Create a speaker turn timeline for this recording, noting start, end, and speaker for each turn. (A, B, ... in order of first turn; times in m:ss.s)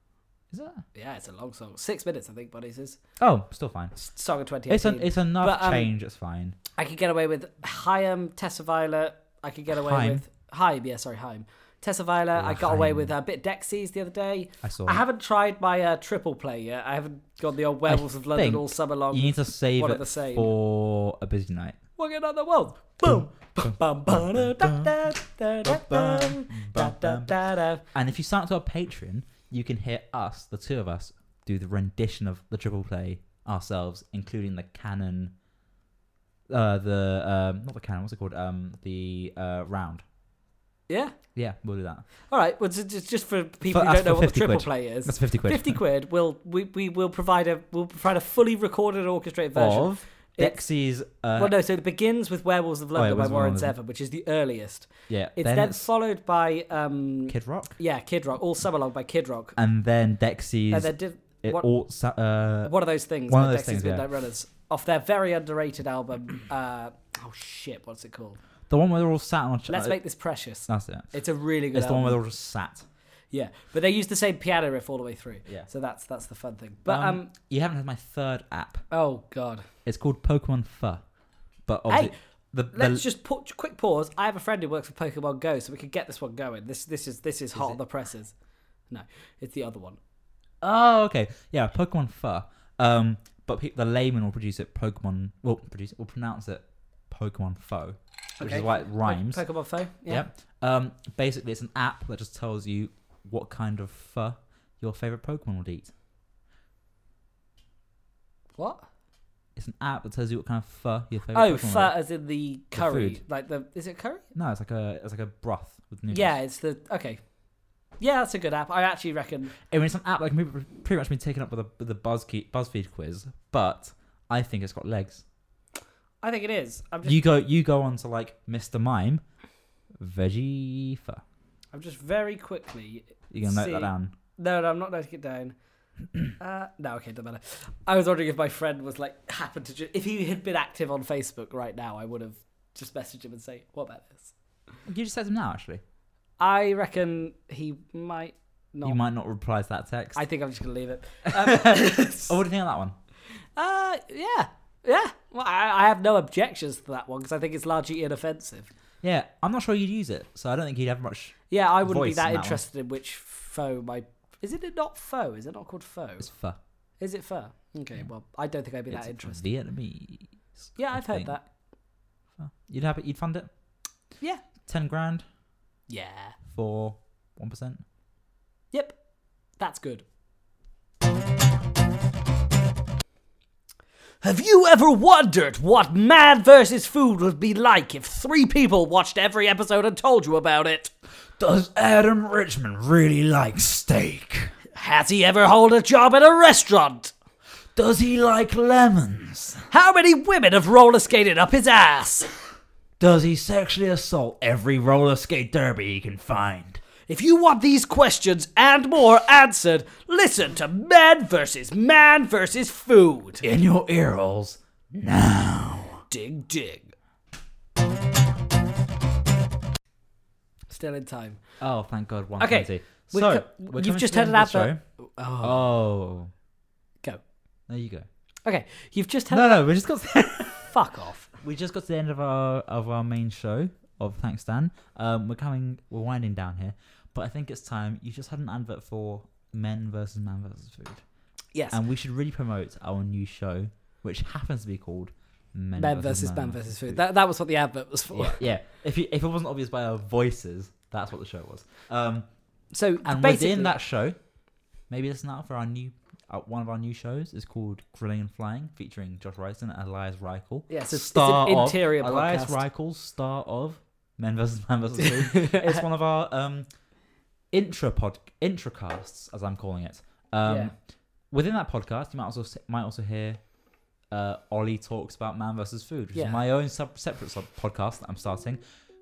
0:00.5-0:00.8 A
0:01.0-0:03.0 B
0:03.2-0:04.0 A
0:04.0-0:05.9 B
0:04.7-0:06.6 A
0:06.8-0:20.5 B
0:09.7-0:10.2 A
0:12.4-0:13.1 A
0:14.6-0:15.0 A
0:17.9-0:21.8 A
0:22.0-0:27.8 B
0:23.0-0:25.0 A
0:25.6-0:27.4 A
0:27.9-0:35.3 A
0:36.5-0:40.0 A
0:40.9-0:41.2 B
0:41.4-0:42.1 A
0:42.3-0:50.6 B
0:43.7-0:45.8 A
0:49.6-0:51.6 A
0:51.4-0:59.6 B
0:53.0-0:53.8 A
0:55.1-0:55.9 A
0:57.3-0:57.8 A
0:59.6-1:02.7 A
1:00.7-1:01.7 B
1:02.6-1:08.4 B
1:03.3-1:04.1 A
1:08.7-1:10.0 A
1:09.7-1:12.2 B
1:10.6-1:11.1 A
1:11.7-1:12.9 A
1:13.3-1:17.3 B
1:16.9-1:18.9 A
1:18.9-1:19.6 B
1:19.8-1:21.0 A
1:21.7-1:23.0 A
1:21.9-1:22.2 B
1:22.7-1:28.3 B
1:27.5-1:27.8 A
1:28.9-1:30.0 B
1:30.6-1:39.4 A
1:38.4-1:40.2 B
1:40.1-1:45.9 A
1:48.6-1:48.8 B
1:49.6-1:52.0 A
1:51.3-1:54.2 B
1:52.7-1:53.2 A
1:54.3-1:56.4 A
1:56.1-1:57.2 B
1:58.0-1:59.6 B
1:59.7-2:05.2 A
2:06.2-2:07.2 B
2:07.0-2:09.2 A
2:10.0-2:11.2 A
2:11.7-2:15.6 B
2:13.3-2:14.1 A
2:16.4-2:24.3 B
2:24.9-2:25.8 A
2:26.4-2:29.0 B
2:28.8-2:30.2 A
2:30.2-2:32.4 B
2:31.3-2:33.0 A
2:33.6-2:38.7 B
2:39.0-2:42.6 A
2:41.5-2:46.3 B
2:46.2-2:46.6 A
2:47.0-2:49.4 B
2:48.9-2:51.4 A
2:50.8-2:51.5 B
2:52.4-2:53.5 A
2:54.6-2:55.2 A
2:55.9-2:56.4 B
2:56.5-2:57.8 A
2:58.7-2:59.0 B
2:59.5-3:00.0 B
3:04.2-3:10.9 B
3:11.4-3:14.5 A
3:14.7-3:17.1 B
3:17.8-3:19.6 A
3:19.7-3:22.3 B
3:23.0-3:26.8 A
3:27.1-3:33.4 B
3:33.4-3:36.0 A
3:36.1-3:36.9 B
3:40.7-3:41.4 B
3:41.6-3:44.8 A
3:42.4-3:45.7 B
3:45.4-3:46.3 A
3:47.7-3:48.1 A
3:48.4-3:49.7 B
3:49.3-3:50.7 A
3:50.7-3:51.3 B
3:51.4-4:01.0 A
4:01.5-4:01.8 B
4:01.7-4:07.0 A
4:05.8-4:08.4 B
4:08.1-4:12.3 A
4:12.7-4:13.8 B
4:13.0-4:14.2 A
4:14.9-4:26.7 A
4:20.7-4:22.6 B
4:25.0-4:25.8 B
4:27.5-4:30.8 A
4:30.4-4:30.7 B
4:31.3-4:33.5 A
4:34.1-4:38.6 A
4:36.1-4:36.4 B